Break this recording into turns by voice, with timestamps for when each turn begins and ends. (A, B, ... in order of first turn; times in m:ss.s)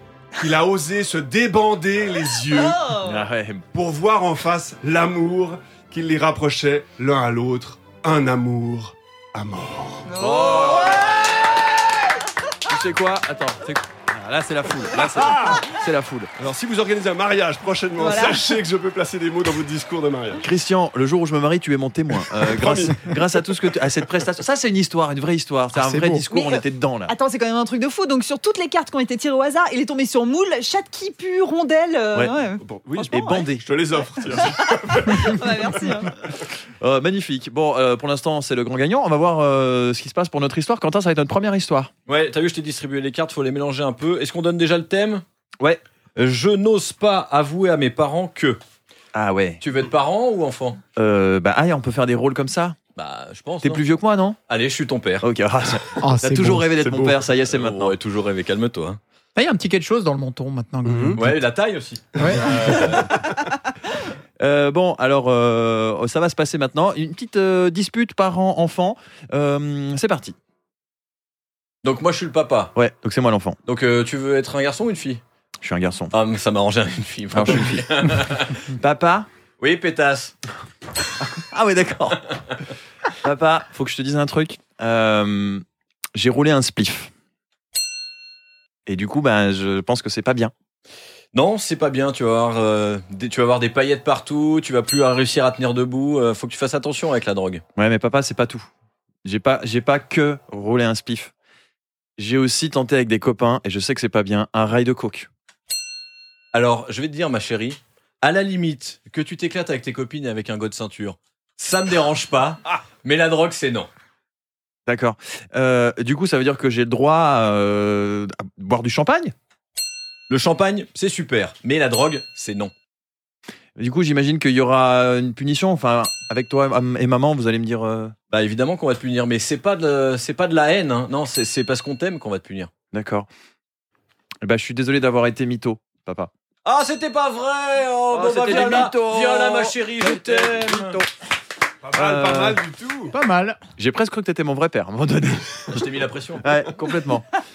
0:00.4-0:02.9 A
0:02.5-0:03.2 B
0:03.0-0:03.6 C
0:03.7-0:10.1 A
0:10.1-0:11.3 B
0:10.2-0:11.2 C
0:12.7-0:16.3 C
0:15.0-0:15.7 A
0:16.4-0:20.4 A
0:18.0-0:18.6 B
0:20.4-0:27.1 C
0:22.3-0:23.5 A
0:25.7-0:26.2 D
0:26.3-0:33.5 B
0:32.6-0:36.1 A
0:33.1-0:33.6 C
0:34.4-0:36.1 B
0:36.8-0:41.9 C
0:42.1-0:45.2 E
0:46.2-0:48.6 E
0:49.2-0:49.6 C
0:49.6-0:50.8 E
0:51.0-0:52.8 C
0:53.0-0:53.8 E
0:53.6-0:54.4 C
0:54.5-0:55.3 E
0:55.2-0:58.0 C
0:56.0-0:56.7 D
0:56.8-0:57.2 A
0:57.5-0:59.0 E
0:59.4-1:01.3 D
1:00.9-1:01.2 A
1:01.2-1:03.1 E
1:02.2-1:03.3 A
1:02.2-1:03.0 D
1:04.4-1:10.4 C
1:11.8-1:12.7 E
1:12.8-1:13.6 C
1:13.7-1:15.2 E
1:15.6-1:16.1 C
1:16.1-1:18.6 E
1:17.3-1:18.1 C
1:18.7-1:19.3 C
1:19.6-1:20.3 E
1:21.2-1:22.3 C
1:23.2-1:25.6 C
1:26.2-1:27.1 C
1:28.9-1:30.5 C
1:31.3-1:37.6 E
1:37.8-1:38.7 C
1:39.2-1:41.3 C
1:42.2-1:45.3 C
1:46.5-1:53.9 E
1:54.9-1:59.3 C
2:00.3-2:02.7 E
2:03.8-2:08.1 C
2:08.3-2:12.7 E
2:12.9-2:13.3 C
2:14.4-2:16.3 C
2:16.6-2:21.0 E
2:18.1-2:21.1 C
2:21.8-2:23.2 A
2:21.9-2:22.6 C
2:23.1-2:23.6 D
2:23.8-2:25.8 C
2:25.7-2:26.5 E
2:26.4-2:27.2 C